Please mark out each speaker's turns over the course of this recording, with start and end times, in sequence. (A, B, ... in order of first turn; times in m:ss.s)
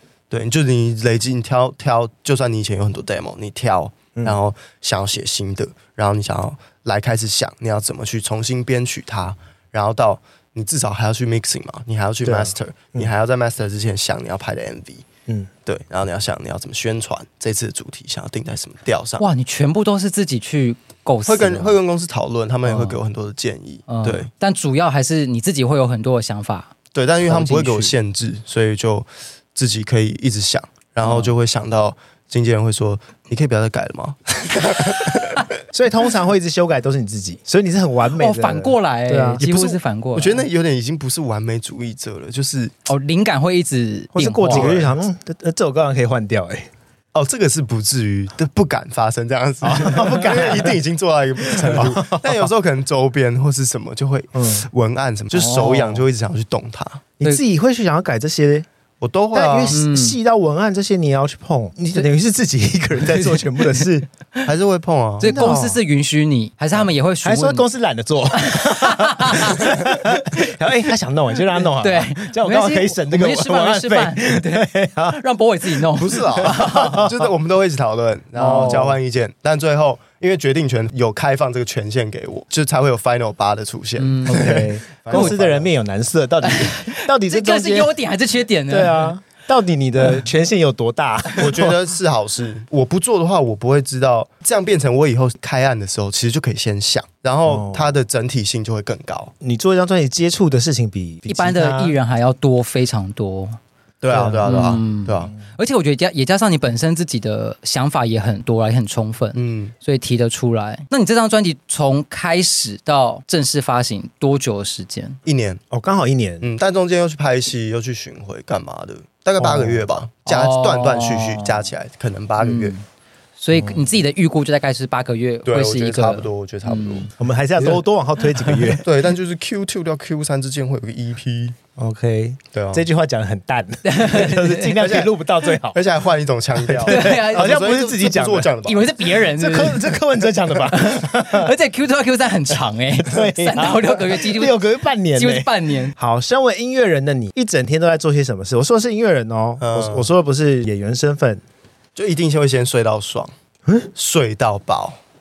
0:00.3-0:15.1 A
0:12.2-0:13.1 B
0:15.7-0:19.2 A
0:19.2-0:21.8 C
0:21.3-0:24.3 A
0:22.7-0:23.0 C
0:23.9-0:27.9 C
0:26.9-0:35.5 A
0:31.0-0:31.3 C
0:35.7-0:39.5 B
0:38.1-0:40.4 C
0:39.4-0:42.7 A
0:42.9-0:44.7 C
0:44.1-0:46.7 B
0:44.5-0:45.0 A
0:47.1-0:57.1 A
0:49.6-0:50.8 B
0:51.4-0:52.5 B
0:54.4-0:54.7 B
0:55.3-0:56.0 C
0:57.2-0:58.7 B
0:59.0-0:59.8 A
0:59.3-1:04.1 B
0:59.7-1:00.2 C
1:03.0-1:03.8 C
1:04.4-1:05.3 A
1:05.2-1:07.7 C
1:05.2-1:05.8 B
1:07.2-1:15.9 B
1:08.3-1:10.5 C
1:11.5-1:17.1 C
1:16.0-1:25.7 A
1:16.4-1:17.2 B
1:18.4-1:18.9 C
1:18.4-1:19.0 B
1:24.0-1:25.4 C
1:24.3-1:27.9 B
1:26.4-1:29.1 C
1:28.7-1:31.8 B
1:31.4-1:39.3 A
1:37.5-1:37.9 B
1:39.4-1:42.0 B
1:41.3-1:43.6 C
1:44.0-1:45.3 A
1:44.1-1:44.7 B
1:44.4-1:55.2 C
1:49.4-1:49.7 A
1:55.3-1:55.6 A
1:55.7-1:56.5 B
1:56.4-2:02.7 A
1:59.4-1:59.8 B
2:00.3-2:01.7 C
2:02.4-2:02.8 C
2:03.4-2:07.1 C
2:05.5-2:07.1 A
2:07.2-2:08.9 B
2:08.8-2:11.6 A
2:11.8-2:15.8 B
2:12.5-2:12.8 A
2:13.8-2:14.9 C
2:14.8-2:15.1 A
2:15.7-2:18.8 A
2:16.6-2:21.5 B
2:16.9-2:17.6 C
2:18.6-2:20.0 C
2:20.7-2:24.6 C
2:23.0-2:31.4 B
2:25.1-2:26.0 C
2:29.6-2:30.1 A
2:32.0-2:33.3 A
2:34.0-2:35.0 A